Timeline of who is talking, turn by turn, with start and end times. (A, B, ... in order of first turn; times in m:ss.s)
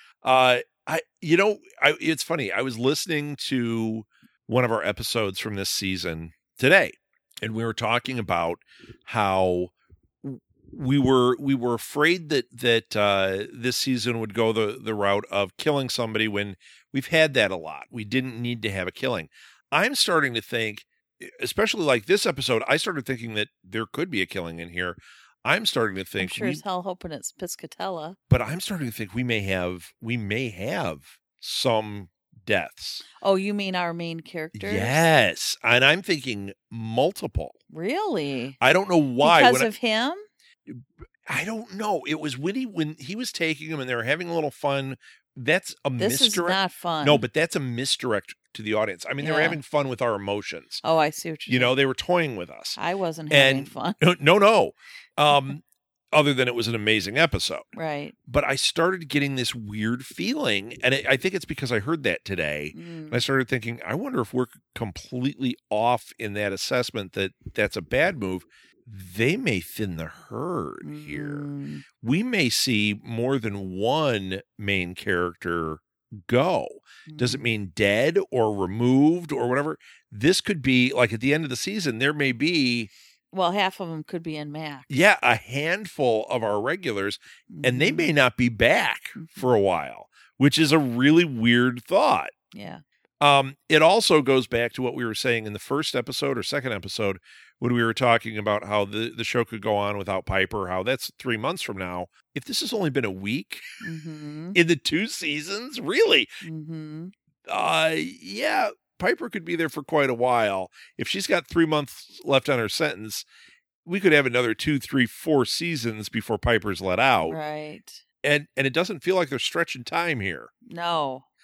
0:00.2-0:26.6 A
0:26.2-0:28.2 B
0:28.3-0:33.0 A
0:33.2-0:35.0 B
0:34.5-0:37.6 A
0:37.7-0:38.6 B
0:38.6-0:39.7 A
0:39.2-0:40.3 B
0:40.7-0:50.8 A
0:46.0-0:47.2 B
0:49.2-0:49.6 B
0:50.8-0:51.7 B
0:51.5-0:52.8 A
0:52.8-0:54.0 B
0:53.3-0:57.6 A
0:57.7-0:58.1 B
0:58.3-1:11.5 A
1:02.7-1:03.2 B
1:10.8-1:11.8 B
1:12.0-1:22.9 A
1:17.1-1:17.4 B
1:23.3-1:24.8 B
1:24.9-1:32.3 A
1:27.5-1:28.1 B
1:29.2-1:29.5 B
1:32.5-1:32.8 B
1:33.2-1:43.6 A
1:43.8-1:44.6 B
1:44.5-1:46.3 A
1:46.4-1:47.1 B
1:47.5-1:53.2 A
1:53.8-1:57.4 A
1:57.3-1:58.0 B
1:58.2-2:00.5 A
2:00.7-2:01.3 B